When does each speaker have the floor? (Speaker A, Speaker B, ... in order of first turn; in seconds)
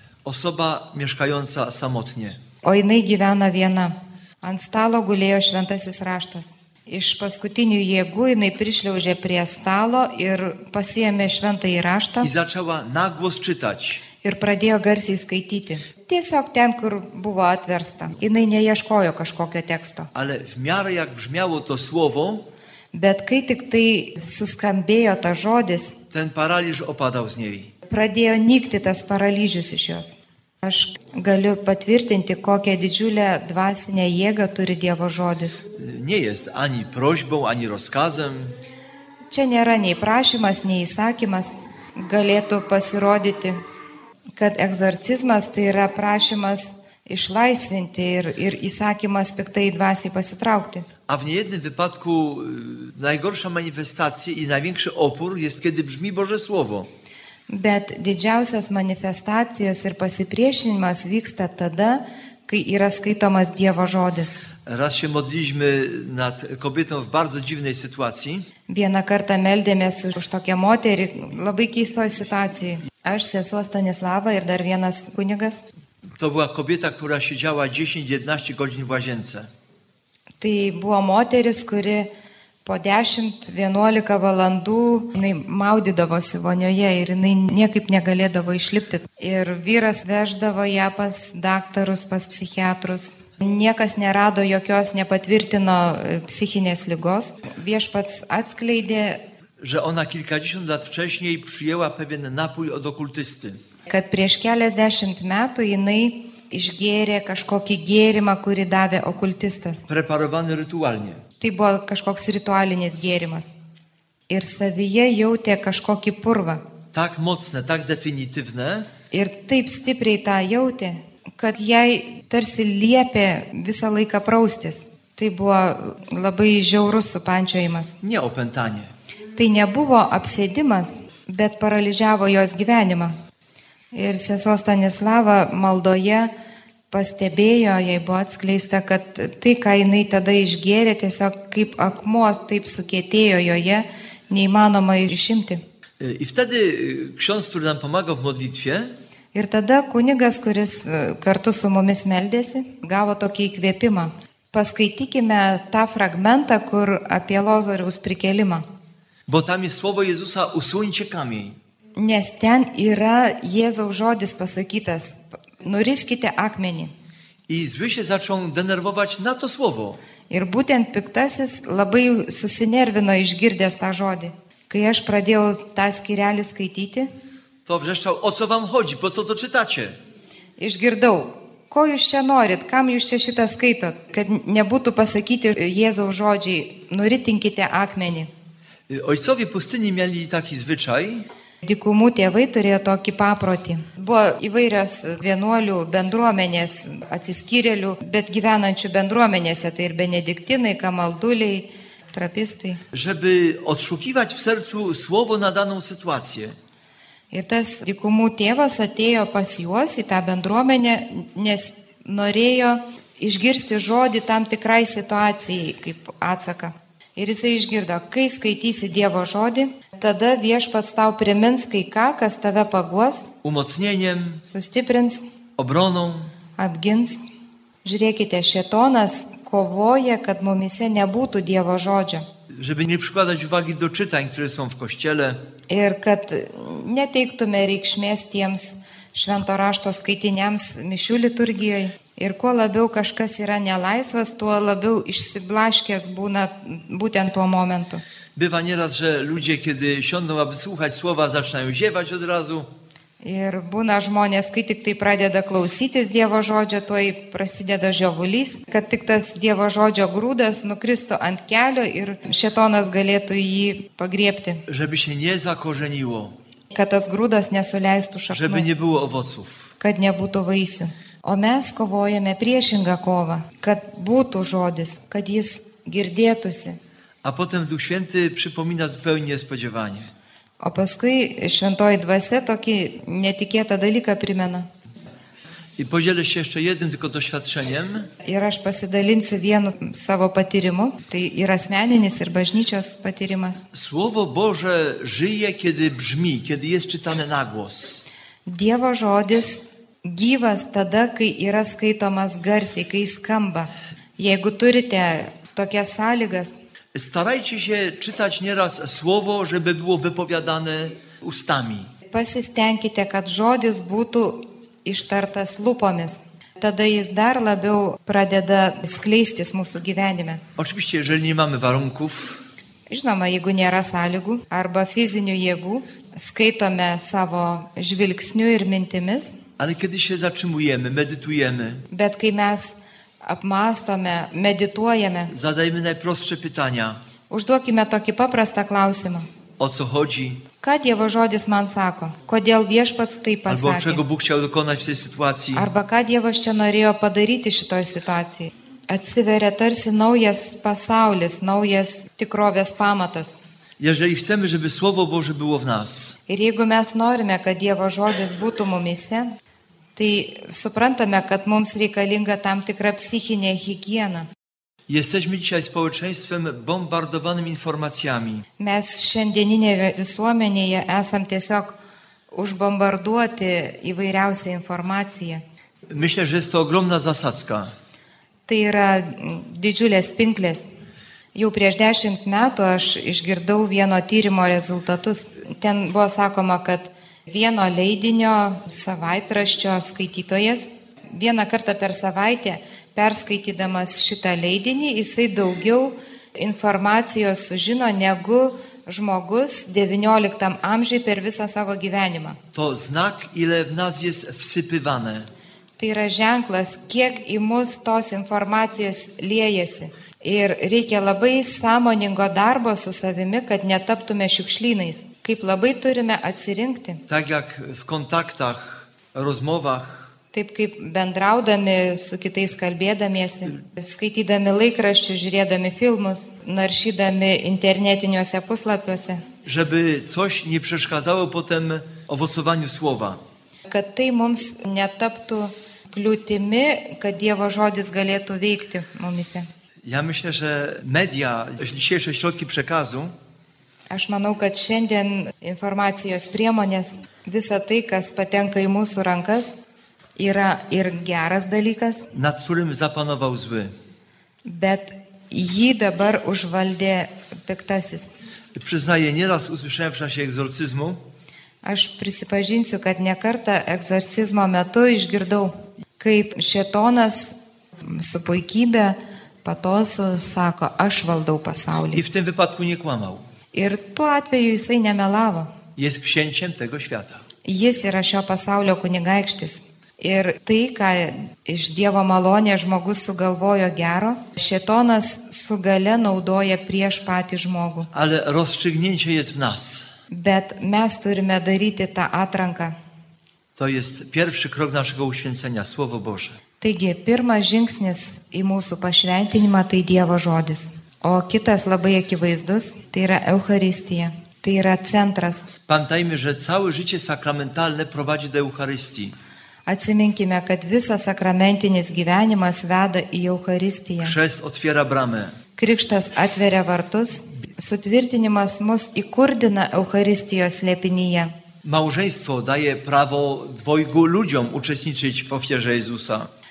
Speaker A: 0.2-2.4, 12.2-14.0, 20.1-22.4, 26.1-27.7, 35.8-38.6, 51.1-56.9, 64.7-68.5, 76.2-79.5, 99.6-103.6, 109.9-111.2, 116.9-118.9, 128.0-128.9, 146.0-148.9, 159.3-161.6, 167.5-170.0, 177.7-180.0, 188.9-191.3, 202.9-206.6, 223.4-224.4, 225.6-226.3, 232.5-235.4, 248.4-252.7, 264.7-266.4, 268.3-269.7, 277.2-280.1, 285.8-288.1, 293.7-298.0, 306.9-311.9, 320.6-322.4, 329.6-331.9, 335.3-337.0, 339.6-340.4, 343.5-345.7, 353.8-356.2, 364.9-368.5, 375.9-377.7, 402.5-405.3, 417.1-420.1, 429.4-433.2, 439.9-443.1, 452.1-453.8, 458.6-461.0, 471.9-473.3, 475.8-477.2, 487.9-489.9, 493.6-496.4, 505.7-509.2, 514.0-515.4, 521.6-526.3
Speaker B: 2.6-12.3, 14.2-20.1, 22.9-26.0, 27.9-35.7, 39.3-43.6, 44.4-50.9, 57.5-64.4, 68.7-75.7, 80.4-82.1, 82.7-99.2, 103.9-109.9, 111.4-113.5, 114.3-116.6, 119.1-128.0, 129.4-133.2, 133.9-136.3, 136.9-145.6, 149.3-158.7, 162.0-166.9, 170.3-177.1, 180.6-188.3, 191.6-202.8, 207.3-223.3, 224.4-225.2, 226.6-227.2, 227.8-232.3, 235.7-248.0, 253.2-264.6, 266.7-268.7, 269.8-276.8, 280.6-284.7, 288.2-293.6, 298.5-306.6, 312.1-320.4, 322.9-329.3, 331.9-335.3, 337.3-339.3, 340.6-344.0, 345.5-353.4, 356.3-359.3, 360.0-364.3, 368.6-371.8, 372.3-375.4, 378.5-380.7, 381.4-402.4, 405.8-417.0, 420.3-429.2, 433.7-439.5, 443.9-449.6, 450.2-452.1, 454.4-458.1, 461.6-472.0, 473.5-475.5, 477.4-487.9, 490.1-492.8, 496.6-505.5, 509.7-514.1, 515.6-521.3